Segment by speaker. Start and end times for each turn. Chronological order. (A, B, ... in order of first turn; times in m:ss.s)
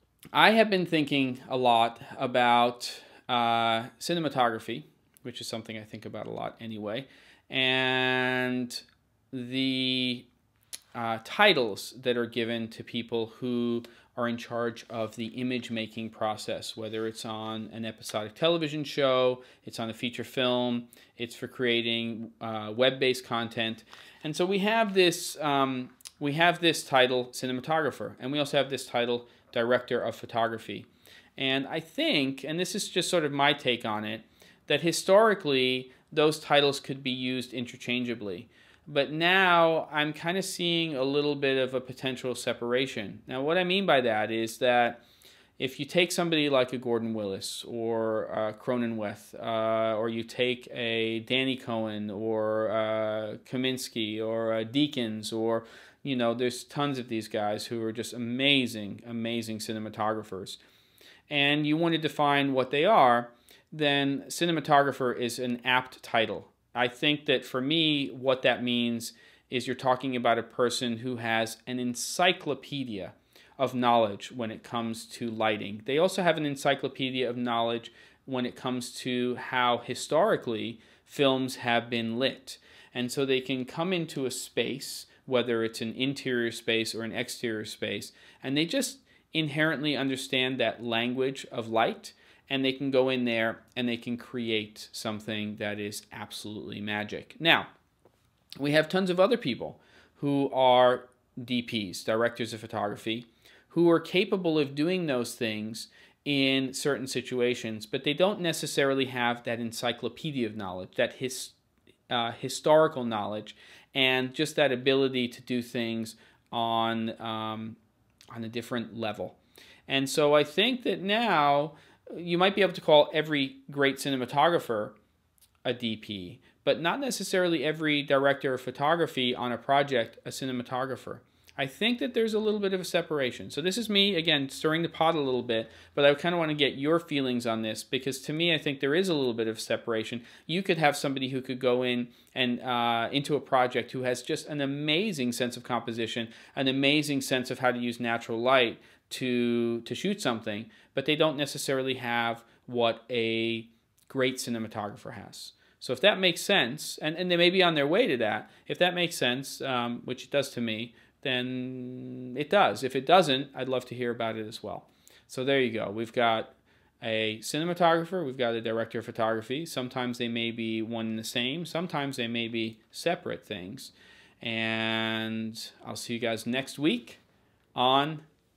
0:00.3-0:10.3 A
0:10.9-0:45.0 A
0:45.6-1:00.6 A
1:01.3-1:37.7 A
1:38.6-1:51.6 A
1:52.1-1:57.8 A
1:58.3-2:05.0 A
2:05.6-2:57.2 A
2:57.7-2:58.2 A